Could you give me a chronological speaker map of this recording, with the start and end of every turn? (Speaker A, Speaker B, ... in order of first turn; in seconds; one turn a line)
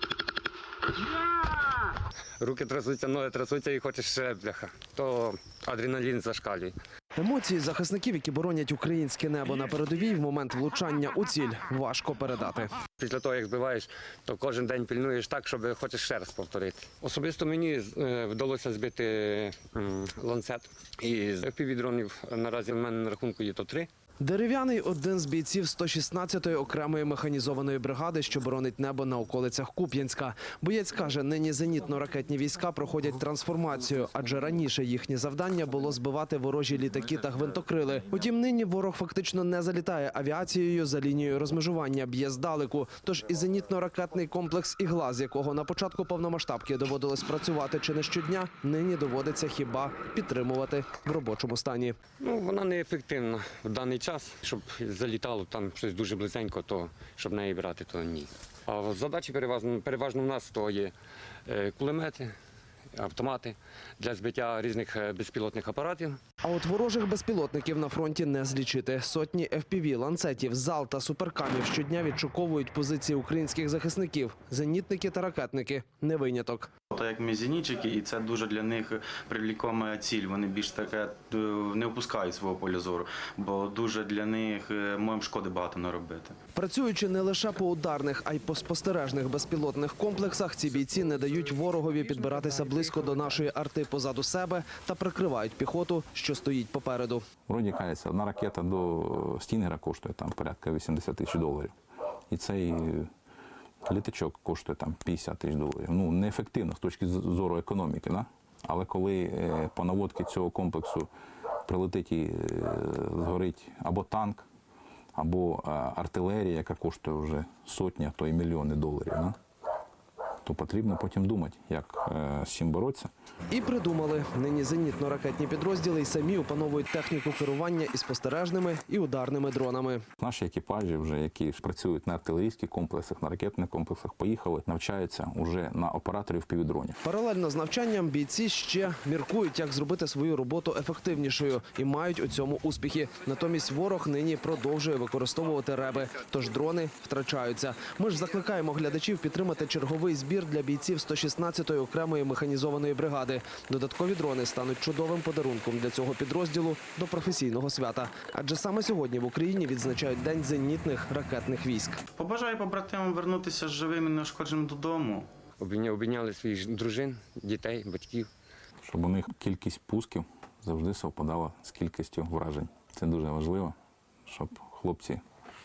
Speaker A: 2.4-6.8
Speaker B: 7.2-12.8
Speaker A: 13.0-23.9
Speaker B: 24.2-52.0
Speaker A: 52.2-60.9
Speaker A: 61.5-62.3
Speaker A: 62.9-66.2
Speaker B: 66.4-76.7
Speaker C: 76.9-86.4
Speaker B: 86.5-97.2
Speaker D: 97.5-101.7
Speaker D: 102.3-103.1
Speaker D: 103.9-111.1
Speaker D: 111.7-114.5
Speaker D: 115.2-119.4
Speaker D: 120.4-123.1
Speaker B: 123.5-130.0
Speaker D: 130.2-137.0
Speaker B: 137.0-162.0
Speaker C: 162.2-165.3
Speaker A: 165.6-168.3
Speaker D: 168.8-173.8
Speaker D: 174.3-175.2